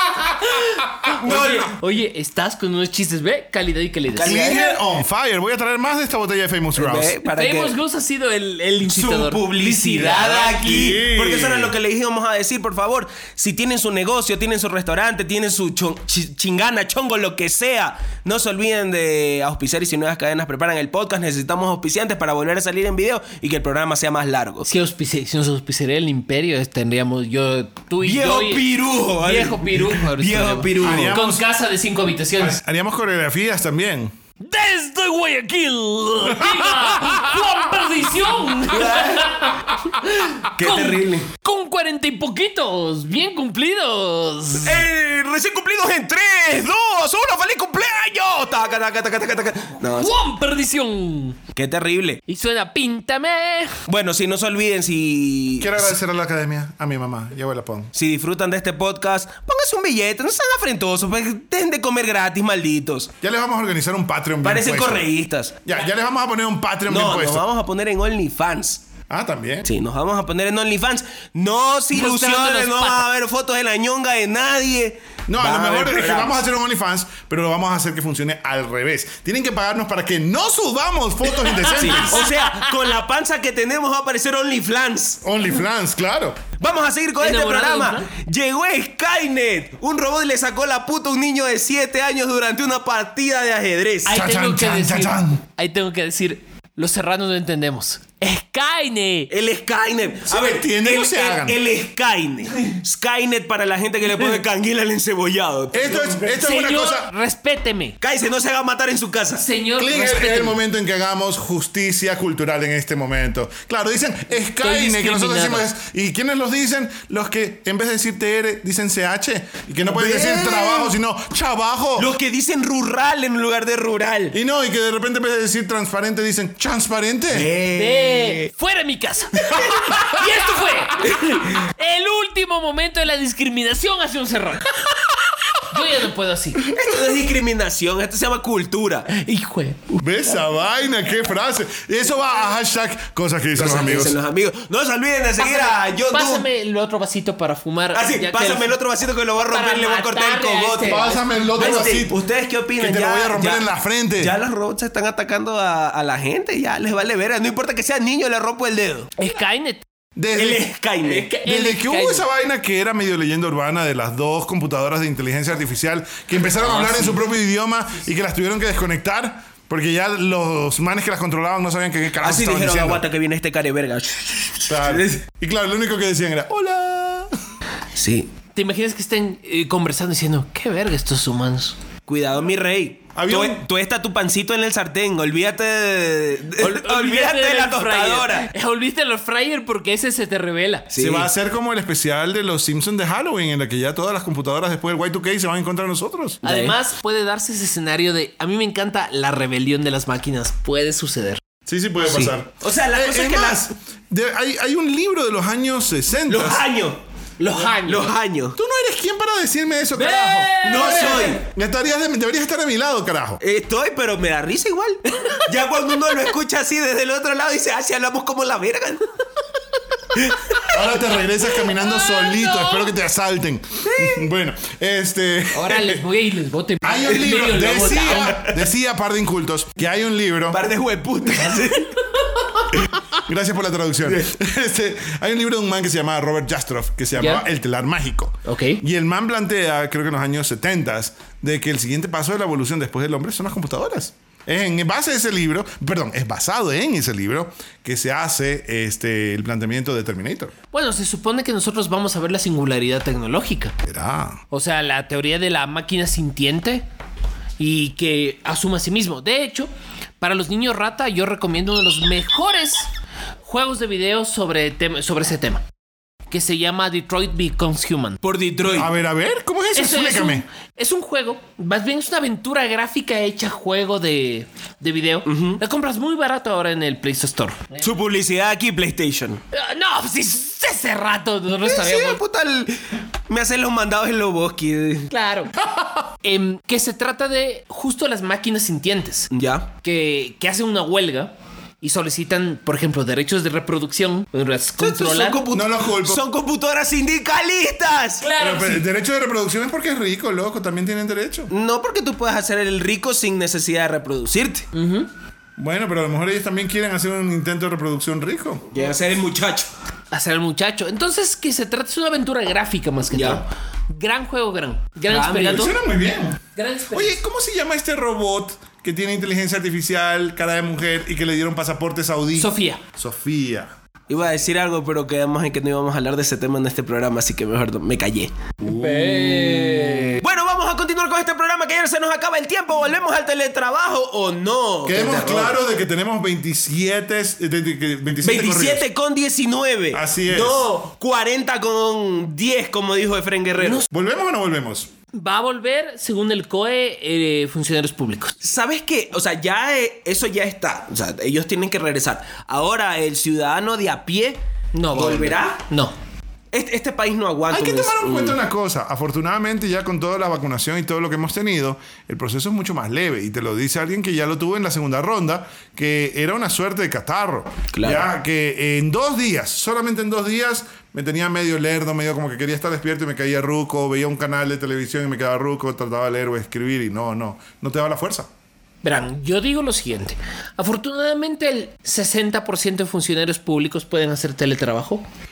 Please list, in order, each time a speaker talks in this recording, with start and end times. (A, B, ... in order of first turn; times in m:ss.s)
0:00.4-0:04.7 A
0:01.2-0:01.7 B
0:04.1-0:04.7 B
0:04.2-0:07.1 C
0:06.7-0:07.7 B
0:07.2-0:10.9 A
0:08.9-0:24.7 B
0:10.6-0:11.7 C
0:24.6-0:28.7 A
0:28.0-0:31.1 B
0:29.2-0:32.6 A
0:30.8-0:31.4 C
0:32.4-0:34.1 C
0:34.4-0:44.8 A
0:36.2-0:37.2 C
0:38.6-0:39.6 B
0:40.6-0:41.3 B
0:44.6-0:50.1 B
0:49.9-0:51.4 A
0:51.5-0:52.2 B
0:52.3-0:53.8 A
0:53.9-0:55.8 B
0:55.6-0:57.9 C
0:57.9-1:03.1 B
1:03.2-1:05.1 C
1:04.4-1:05.6 B
1:05.6-1:07.4 C
1:06.9-1:08.8 B
1:09.1-1:09.7 C
1:09.6-1:16.4 B
1:11.9-1:13.0 A
1:15.3-1:22.3 C
1:21.5-1:22.9 A
1:21.7-1:25.2 B
1:25.2-1:26.4 C
1:26.6-1:34.2 B
1:27.2-1:28.1 A
1:34.0-1:39.3 A
1:34.1-1:35.4 C
1:39.3-1:46.4 B
1:40.2-1:41.6 C
1:45.7-1:47.1 C
1:46.3-1:48.0 A
1:48.0-1:49.4 B
1:49.4-1:50.6 A
1:49.8-2:02.1 C
1:54.6-1:55.6 A
1:59.9-2:00.9 B
2:02.0-2:04.4 B
2:04.3-2:07.5 C
2:07.3-2:08.5 B
2:07.7-2:15.0 A
2:09.4-2:10.0 B
2:15.5-2:16.6 A
2:16.6-2:19.1 B
2:16.8-2:17.0 C
2:19.1-2:19.8 A
2:19.9-2:24.2 C
2:23.6-2:26.4 B
2:25.4-2:28.7 A
2:27.9-2:39.1 B
2:29.5-2:32.0 A
2:30.8-2:32.2 C
2:32.8-2:34.3 C
2:39.2-2:39.8 A
2:40.2-2:40.6 C
2:40.4-2:41.3 B
2:41.0-2:42.2 A
2:41.4-2:53.0 C
2:46.6-2:47.2 B
2:52.2-2:55.2 B
2:54.7-2:57.3 C
2:57.9-2:58.3 B
2:58.5-3:01.8 A
3:02.1-3:08.5 B
3:03.2-3:03.6 C
3:06.6-3:10.9 A
3:10.9-3:11.3 B
3:11.0-3:16.4 C
3:16.4-3:16.8 B
3:16.4-3:21.4 A
3:21.6-3:26.6 C
3:22.0-3:23.7 B
3:26.3-3:27.0 B
3:27.4-3:28.1 A
3:27.5-3:28.6 B
3:28.5-3:33.4 C
3:29.9-3:31.4 A
3:30.6-3:31.4 B
3:33.4-3:39.1 B
3:40.1-3:40.7 B
3:40.7-3:46.0 C
3:43.9-3:44.3 B
3:45.5-3:48.4 A
3:46.8-3:50.6 C
3:47.7-3:48.6 B
3:50.5-3:52.0 B
3:53.1-4:10.5 C
3:57.2-3:57.4 A
3:58.4-3:58.8 A
4:10.7-4:13.7 A
4:13.8-4:14.4 C
4:14.5-4:16.8 A
4:17.6-4:22.9 A
4:23.4-4:25.6 A
4:26.3-4:28.2 A
4:28.2-4:28.9 B
4:28.7-4:30.4 C
4:29.7-4:37.9 A
4:35.2-4:35.6 B
4:37.8-4:39.4 B
4:39.5-4:42.2 A
4:41.6-4:45.1 B
4:45.1-4:45.5 A
4:46.2-4:49.3 A
4:49.3-4:49.7 B
4:49.8-4:55.4 A
4:54.8-4:58.3 B
4:55.5-4:56.2 C
4:58.2-4:58.8 A
4:58.4-5:01.5 C
5:01.5-5:04.7 B
5:04.7-5:05.1 A
5:05.6-5:08.7 C
5:08.7-5:09.7 B
5:10.1-5:15.7 A
5:13.1-5:13.4 B
5:15.1-5:15.6 B
5:15.4-5:16.4 C
5:16.6-5:17.2 A
5:16.9-5:23.7 C
5:22.4-5:22.8 A
5:24.1-5:28.3 B
5:28.6-5:30.2 A
5:28.7-5:29.6 C
5:30.2-5:35.6 B
5:34.8-5:38.8 C
5:38.2-5:43.9 B
5:39.9-5:40.6 C
5:43.6-5:43.9 A
5:43.9-5:44.9 C
5:45.1-5:48.4 A
5:48.4-5:54.4 B
5:54.7-5:55.9 A
5:54.9-5:55.6 B
5:56.5-5:58.4 B
5:57.5-6:18.3 C
6:07.7-6:08.0 B
6:18.8-6:25.0 A